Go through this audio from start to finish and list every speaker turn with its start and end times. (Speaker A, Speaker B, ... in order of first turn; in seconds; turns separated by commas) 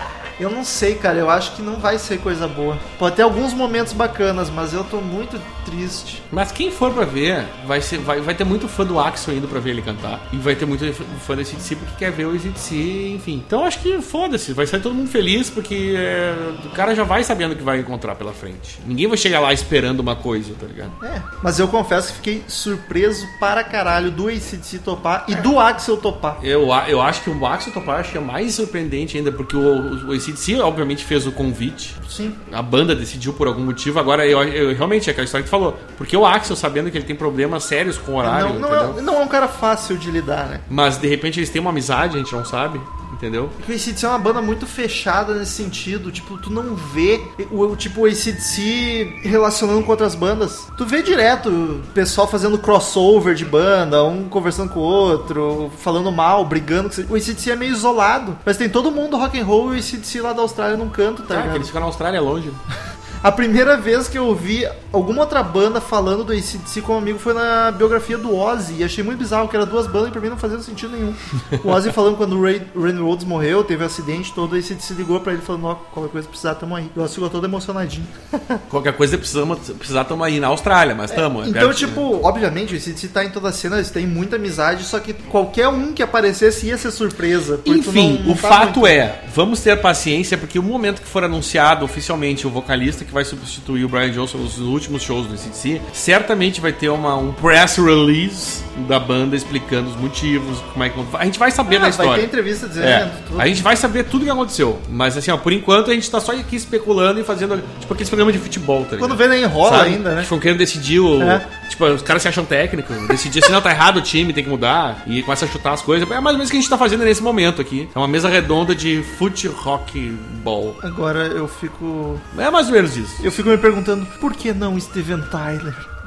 Speaker A: 0.4-6.2, Speaker B: 6.3-20.9, Speaker A: 21.0-26.4, Speaker B: 26.4-39.0, Speaker A: 32.0-32.4, Speaker A: 38.2-40.6, Speaker B: 40.7-43.5, Speaker A: 43.6-61.7, Speaker B: 61.3-62.6, Speaker A: 63.2-78.6, Speaker B: 78.7-82.0, Speaker A: 81.1-89.0, Speaker B: 87.6-120.8, Speaker A: 101.7-103.6, Speaker A: 109.0-110.3, Speaker A: 111.2-111.4, Speaker A: 120.8-122.2, Speaker B: 122.3-123.2, Speaker A: 123.2-125.9